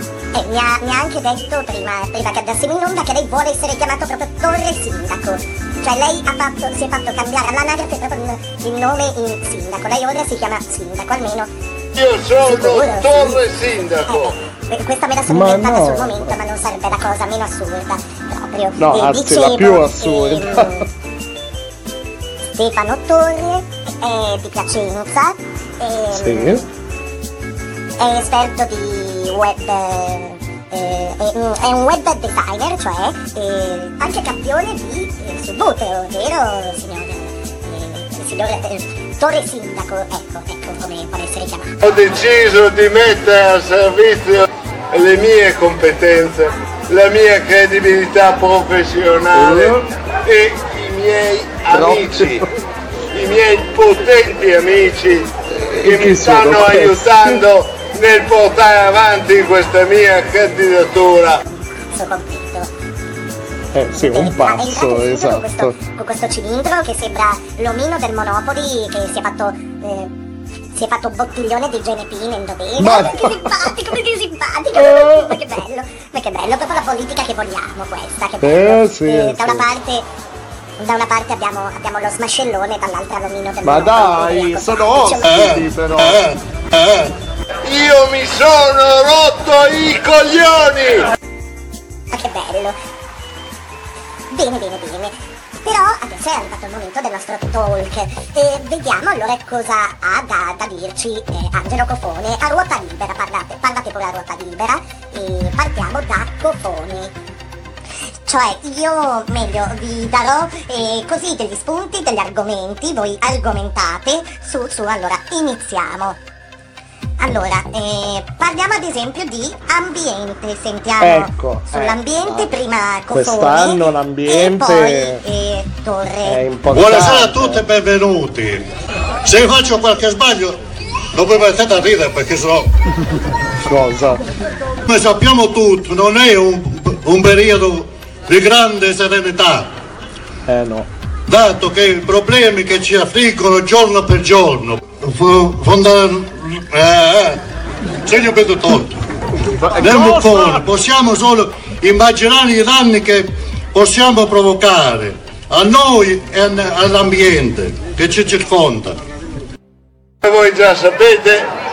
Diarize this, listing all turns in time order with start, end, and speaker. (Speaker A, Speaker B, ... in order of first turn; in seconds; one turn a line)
Speaker A: 0.3-11.5
Speaker B: 11.9-14.3
Speaker A: 12.4-13.4
Speaker A: 14.1-20.9
Speaker C: 15.3-16.4
Speaker C: 18.8-20.7
Speaker A: 22.5-26.6
Speaker C: 26.1-26.6
Speaker A: 28.0-41.7
Speaker B: 41.8-52.5
Speaker C: 49.3-49.8
Speaker C: 51.7-52.5
Speaker B: 53.1-55.3
Speaker C: 55.5-57.4
Speaker B: 55.9-61.4
Speaker A: 61.9-62.7
Speaker C: 63.7-65.8
Speaker A: 63.9-70.1
Speaker A: 70.8-80.0
Speaker C: 72.8-73.7
Speaker C: 74.7-75.4
Speaker C: 78.4-79.7
Speaker A: 80.8-85.3
Speaker C: 83.6-86.2
Speaker D: 85.3-87.1
Speaker B: 87.7-91.1
Speaker A: 92.1-92.8
Speaker A: 94.3-107.1
Speaker A: 108.3-116.2
Speaker A: 117.2-126.5
Speaker C: 121.0-122.5
Speaker C: 123.1-125.2
Speaker C: 126.2-127.6
Speaker D: 126.7-128.7
Speaker D: 129.2-130.6
Speaker D: 131.1-132.7
Speaker C: 133.6-134.2
Speaker D: 134.9-139.7
Speaker C: 140.5-140.9
Speaker D: 141.3-147.4
Speaker D: 148.0-148.9
Speaker C: 149.4-150.7
Speaker D: 149.8-159.0
Speaker B: 160.2-161.5